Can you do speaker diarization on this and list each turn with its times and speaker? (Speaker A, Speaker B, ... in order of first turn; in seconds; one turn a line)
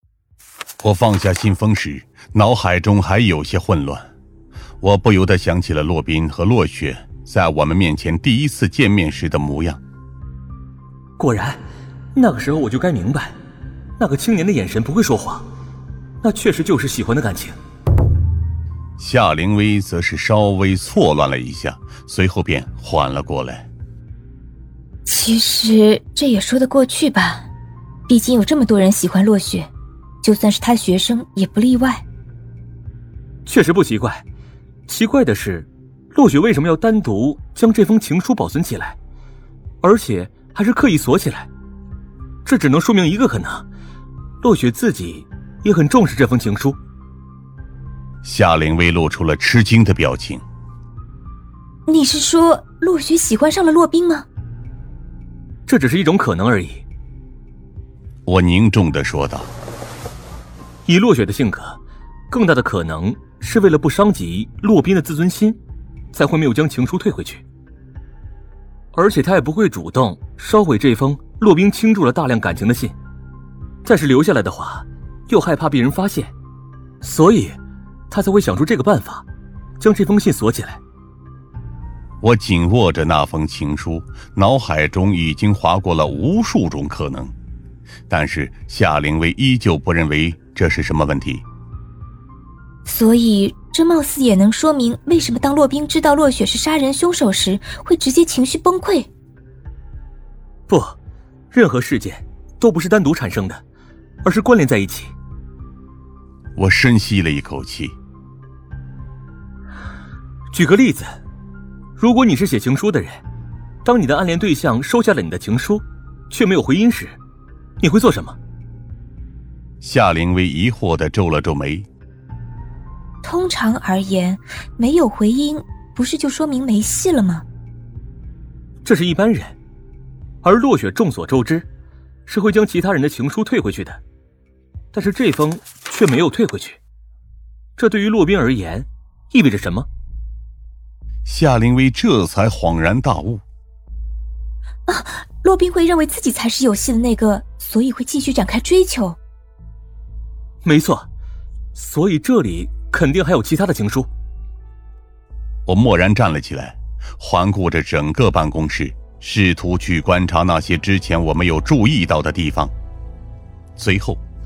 Speaker A: 0.8-4.1
Speaker A: 4.8-9.8
Speaker B: 11.2-11.6
Speaker B: 12.2-13.3
Speaker B: 14.0-15.5
Speaker B: 16.2-17.6
Speaker A: 19.0-23.7
Speaker C: 25.1-27.5
Speaker C: 28.1-29.7
Speaker C: 30.2-32.0
Speaker B: 33.5-34.2
Speaker B: 34.9-39.0
Speaker B: 39.8-41.5
Speaker B: 42.5-43.6
Speaker B: 44.4-46.8
Speaker A: 48.2-50.4
Speaker C: 51.9-54.3
Speaker B: 55.7-56.8
Speaker A: 58.3-59.5
Speaker B: 60.9-61.8
Speaker B: 62.3-65.6
Speaker B: 66.1-67.4
Speaker B: 68.9-73.0
Speaker B: 73.8-76.3
Speaker B: 77.0-77.6
Speaker B: 78.1-79.2
Speaker B: 79.8-80.8
Speaker A: 82.2-87.3
Speaker A: 88.1-91.4
Speaker C: 92.9-99.1
Speaker B: 100.7-101.0
Speaker B: 101.5-103.6
Speaker B: 104.2-105.1
Speaker A: 106.6-108.0
Speaker B: 110.5-111.2
Speaker B: 112.0-113.2
Speaker B: 113.8-117.2
Speaker B: 117.8-118.4
Speaker A: 119.8-121.9
Speaker C: 123.2-127.5
Speaker B: 128.8-129.6
Speaker B: 130.4-131.7
Speaker B: 132.3-134.0
Speaker B: 134.9-136.8
Speaker B: 137.8-139.9
Speaker A: 141.2-143.4
Speaker C: 144.9-149.2
Speaker B: 150.6-151.1
Speaker B: 151.8-154.1
Speaker A: 155.7-162.7
Speaker A: 163.8-164.2